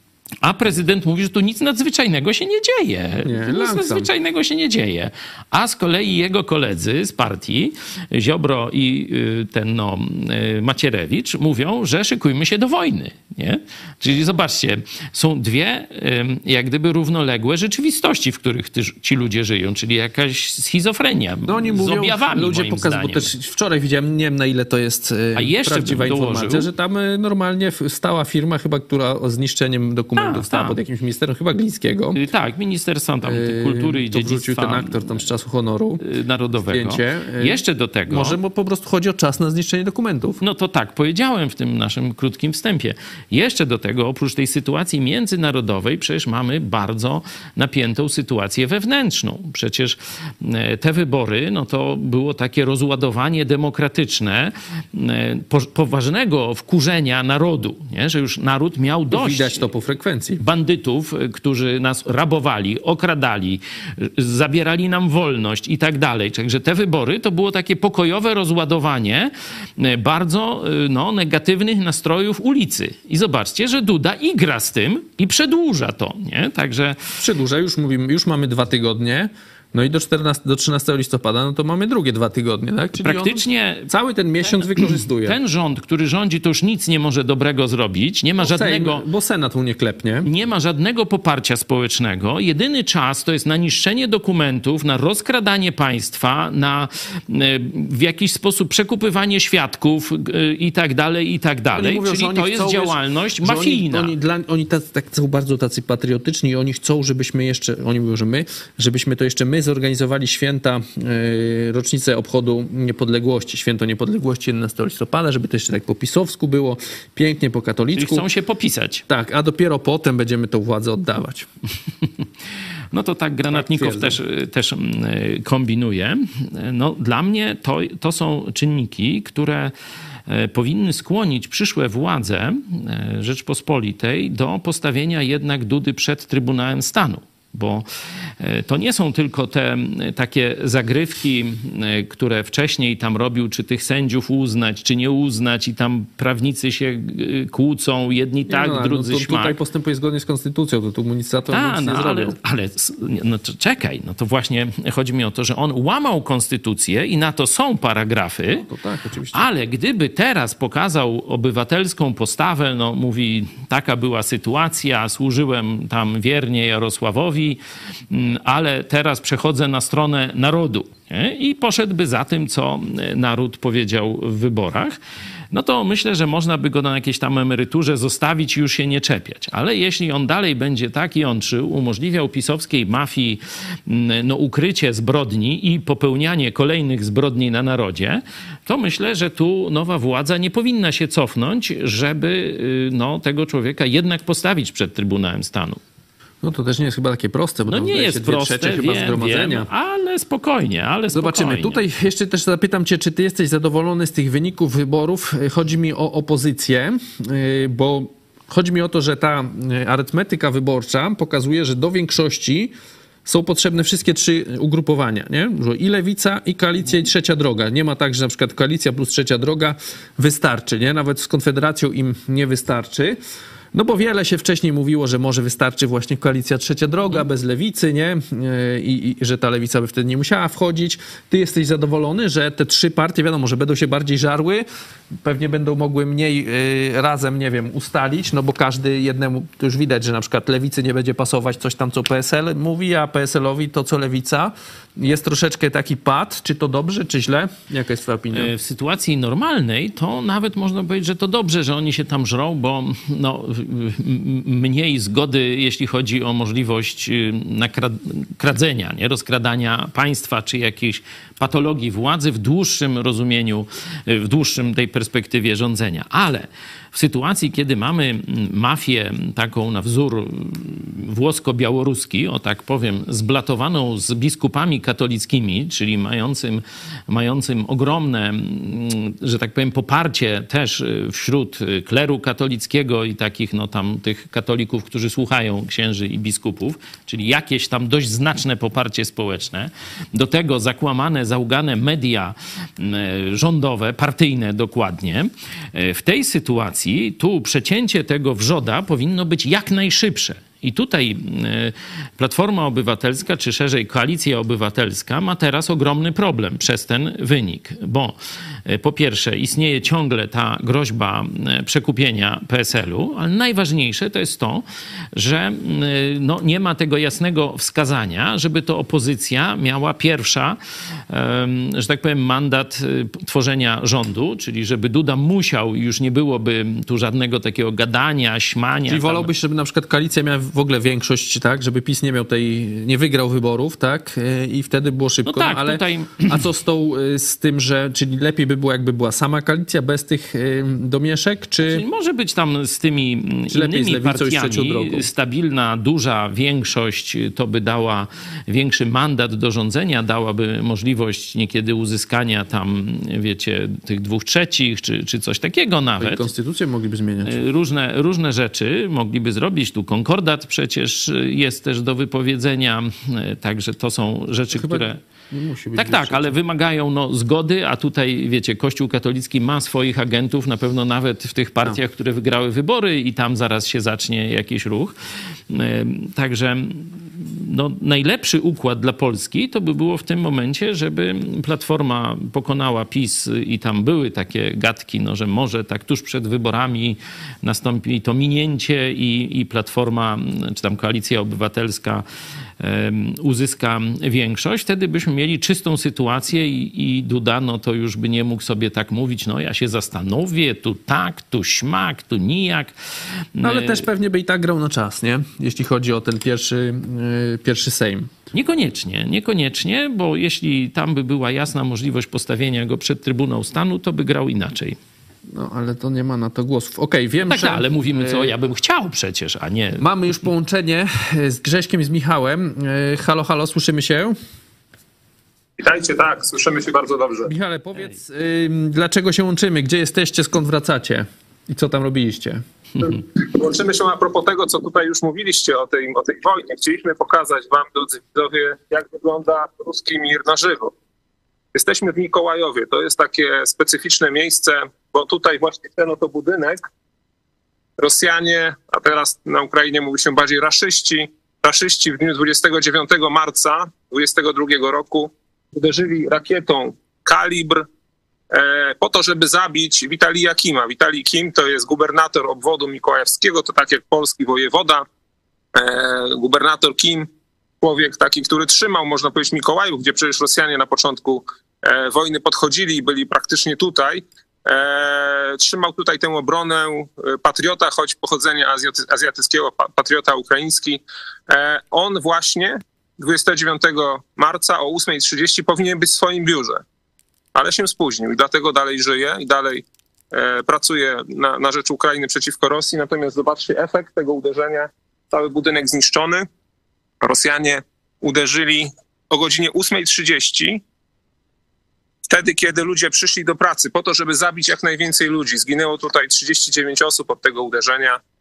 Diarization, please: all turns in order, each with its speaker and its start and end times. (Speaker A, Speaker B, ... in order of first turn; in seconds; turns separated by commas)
Speaker A: 0.4-23.3, Speaker B: 3.2-4.1, Speaker B: 21.5-32.2, Speaker A: 25.4-26.7, Speaker A: 30.2-30.8, Speaker A: 32.1-35.2, Speaker B: 33.2-36.0, Speaker A: 36.0-38.4, Speaker B: 36.7-40.4, Speaker A: 40.4-59.7, Speaker B: 59.1-60.4, Speaker A: 60.4-77.0, Speaker B: 77.2-85.4, Speaker A: 83.0-83.9, Speaker A: 84.4-89.0, Speaker B: 88.4-90.3, Speaker A: 90.2-104.1, Speaker B: 101.8-118.3, Speaker A: 118.0-119.0, Speaker B: 119.1-121.5, Speaker A: 122.9-129.7, Speaker B: 123.5-124.2, Speaker A: 130.3-137.9, Speaker A: 138.4-149.6, Speaker B: 148.5-152.4, Speaker A: 151.5-158.7, Speaker B: 158.5-159.5, Speaker A: 159.3-167.6, Speaker A: 168.1-175.0, Speaker A: 175.5-195.8, Speaker B: 196.4-199.7, Speaker A: 197.7-201.8, Speaker B: 201.1-212.7, Speaker B: 213.3-223.2, Speaker B: 223.7-234.7, Speaker B: 235.2-248.5, Speaker A: 248.3-320.6, Speaker A: 321.1-329.3, Speaker B: 328.9-341.8, Speaker A: 335.3-336.4, Speaker A: 341.6-356.3, Speaker B: 343.5-345.1, Speaker B: 356.0-357.4, Speaker A: 357.3-365.0, Speaker B: 364.5-366.4, Speaker A: 365.8-374.9, Speaker A: 375.5-392.1, Speaker A: 392.6-402.7, Speaker A: 403.4-403.8, Speaker B: 403.4-408.1, Speaker A: 408.3-414.8, Speaker B: 415.3-418.3, Speaker A: 417.2-419.9, Speaker B: 419.8-424.1, Speaker C: 425.6-427.3, Speaker B: 427.3-432.4, Speaker C: 432.8-440.7, Speaker C: 441.5-446.6, Speaker C: 447.8-457.7, Speaker C: 458.3-464.9, Speaker C: 465.6-467.1, Speaker C: 467.6-486.6, Speaker C: 487.4-496.3, Speaker C: 497.0-500.6, Speaker C: 502.1-508.0